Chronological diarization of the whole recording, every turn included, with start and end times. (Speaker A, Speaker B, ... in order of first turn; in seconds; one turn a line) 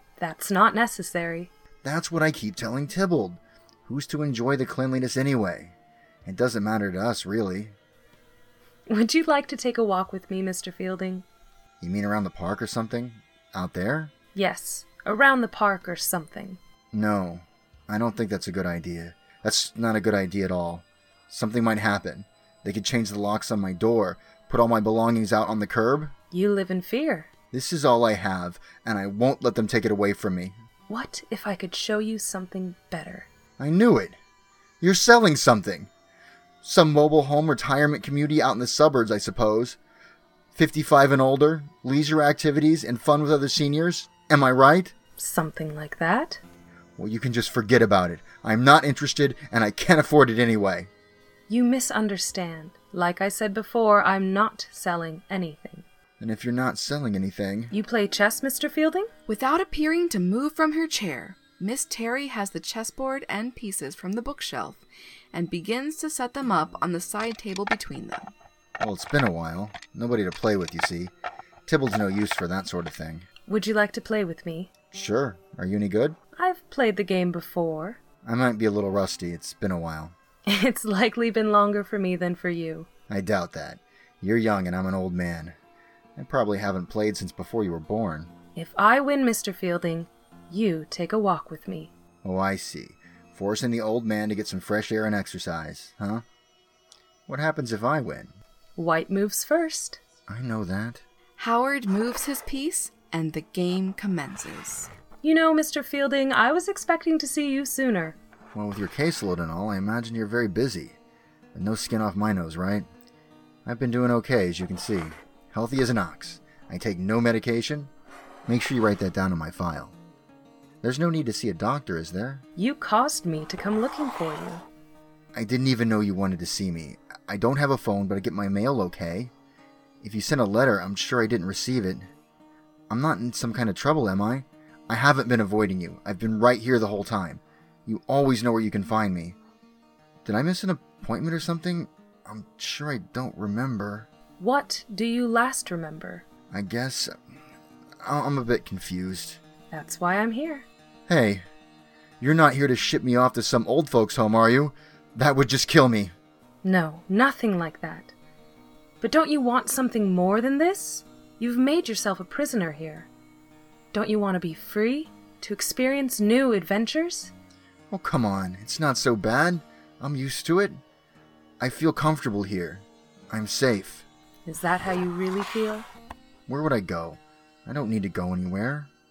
Speaker A: 0.2-1.5
Speaker B: 1.8-7.8
Speaker A: 8.9-11.2
Speaker B: 11.8-14.1
Speaker A: 14.3-16.6
Speaker B: 16.9-26.1
Speaker A: 26.3-27.3
Speaker B: 27.5-30.6
Speaker A: 30.9-33.3
Speaker B: 33.6-34.2
Speaker B: 34.8-35.9
Speaker B: 36.6-39.8
Speaker B: 40.5-44.9
Speaker A: 45.2-46.4
Speaker B: 47.0-50.9
Speaker A: 51.5-55.9
Speaker B: 56.2-57.7
Speaker A: 57.7-59.1
Speaker C: 59.3-68.3
Speaker B: 68.8-71.1
Speaker B: 71.7-73.3
Speaker A: 73.5-74.7
Speaker B: 74.9-76.2
Speaker A: 76.4-78.0
Speaker B: 78.2-80.2
Speaker A: 80.5-82.9
Speaker B: 83.1-85.5
Speaker B: 86.2-88.3
Speaker A: 88.5-91.9
Speaker B: 92.2-96.2
Speaker B: 97.3-98.3
Speaker A: 98.8-100.0
Speaker B: 100.3-101.0
Speaker C: 101.4-104.9
Speaker A: 105.2-108.2
Speaker B: 108.5-111.0
Speaker B: 111.5-112.9
Speaker B: 113.7-117.9
Speaker B: 118.5-120.0
Speaker B: 120.8-122.4
Speaker A: 122.6-124.6
Speaker B: 125.3-129.3
Speaker B: 130.0-132.1
Speaker B: 132.9-139.4
Speaker B: 140.2-144.1
Speaker A: 144.4-146.2
Speaker B: 146.5-147.2
Speaker B: 148.0-149.4
Speaker A: 149.7-150.7
Speaker B: 151.1-151.4
Speaker B: 152.2-156.1
Speaker A: 156.6-158.1
Speaker A: 159.0-163.1
Speaker A: 163.9-167.3
Speaker B: 167.9-170.8
Speaker B: 171.6-174.1
Speaker A: 174.5-175.9
Speaker B: 176.5-178.9